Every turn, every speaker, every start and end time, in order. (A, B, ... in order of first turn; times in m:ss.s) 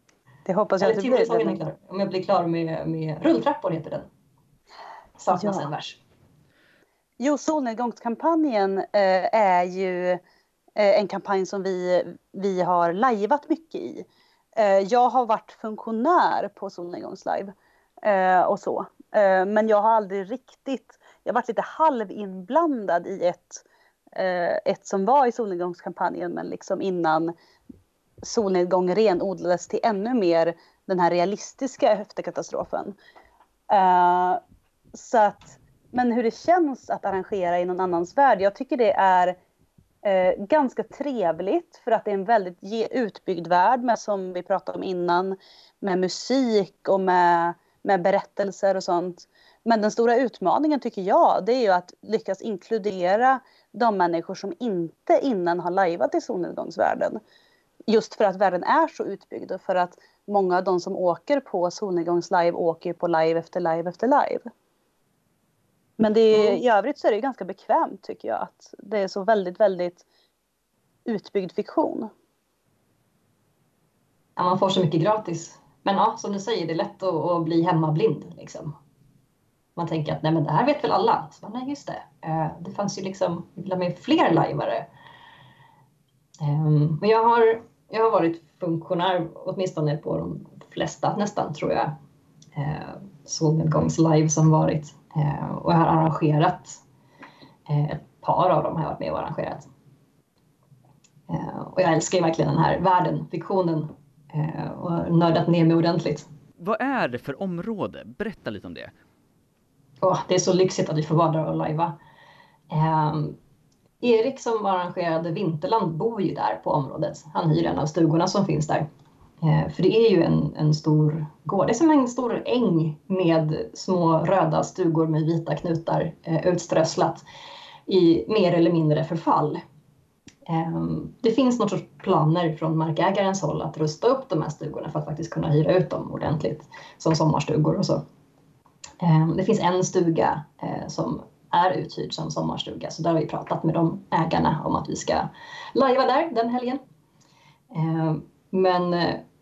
0:00.4-0:01.6 A
0:00.8-0:04.1 B
0:05.2-0:06.0 B
0:05.3-0:05.7 A
0:07.2-0:10.2 A
0:10.8-0:23.6 A
0:24.2-0:27.3 A
0:28.2-0:33.0 A
0:33.7-0:34.4 A
0:34.9-0:39.4 A
0:40.0-0:57.2 A
0:57.9-1:04.5 A
1:06.0-1:10.0 A
1:11.1-1:12.1 A
1:14.4-1:18.8 B
1:19.8-1:24.9 B
1:26.4-1:32.0 B
1:32.6-1:36.8 B
1:37.7-1:39.7 B
1:41.3-1:46.3 B
1:46.6-1:48.9 C
1:50.0-1:52.0 B
1:52.7-1:53.4 B
1:54.0-1:58.9 B
1:59.4-2:07.2 B
2:07.9-2:09.6 B
2:10.5-2:18.0 B
2:19.0-2:26.8 B
2:27.7-2:29.2 B